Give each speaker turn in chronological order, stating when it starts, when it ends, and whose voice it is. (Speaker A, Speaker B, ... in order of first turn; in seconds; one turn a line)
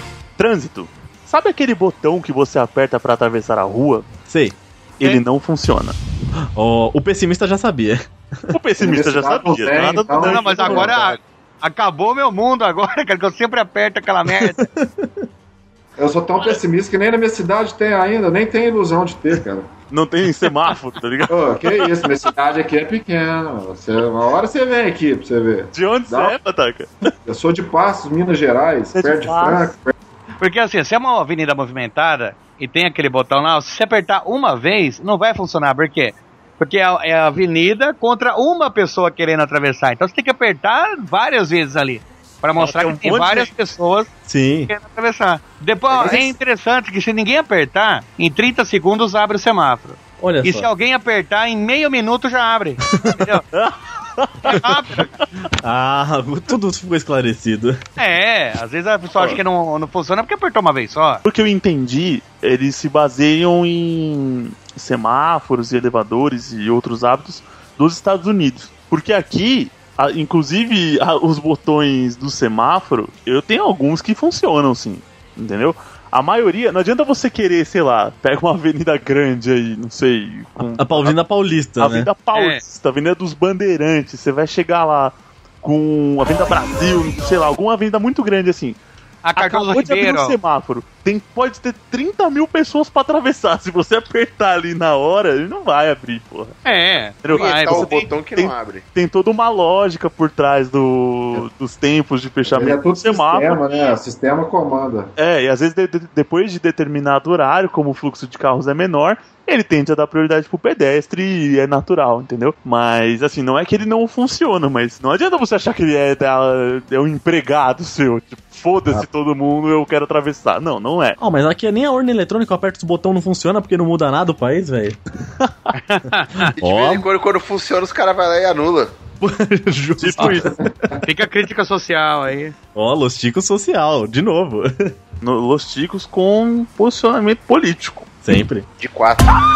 Speaker A: 0.4-4.0
Speaker B: 4.3-4.6
Speaker A: 5.0-6.0
Speaker B: 6.5-8.5
Speaker A: 8.5-11.2
Speaker C: 8.8-11.0
Speaker D: 10.2-14.6
Speaker B: 14.3-15.2
Speaker C: 16.0-19.7
Speaker A: 19.9-21.9
Speaker C: 21.3-26.3
Speaker A: 25.7-26.9
Speaker C: 27.2-29.9
Speaker A: 28.9-29.7
Speaker D: 30.4-44.1
Speaker A: 42.6-43.5
Speaker B: 44.2-44.7
Speaker D: 44.7-53.4
Speaker B: 50.2-50.7
Speaker B: 52.9-53.2
Speaker A: 53.5-55.0
Speaker D: 54.4-55.1
Speaker B: 55.6-57.8
Speaker D: 58.0-61.2
Speaker A: 61.2-81.2
Speaker B: 80.8-82.1
Speaker A: 81.8-88.8
Speaker D: 82.3-82.6
Speaker D: 89.2-90.3
Speaker A: 89.4-96.6
Speaker D: 96.6-97.9
Speaker A: 97.2-103.8
Speaker E: 97.3-98.8
Speaker C: 102.5-105.1
Speaker A: 105.2-121.2
Speaker B: 121.2-125.0
Speaker D: 125.7-126.5
Speaker E: 126.6-128.9
Speaker B: 126.6-127.0
Speaker B: 129.2-130.7
Speaker A: 130.0-130.5
Speaker D: 131.0-132.5
Speaker B: 132.7-134.9
Speaker A: 135.2-138.1
Speaker B: 138.2-138.7
Speaker E: 138.8-139.4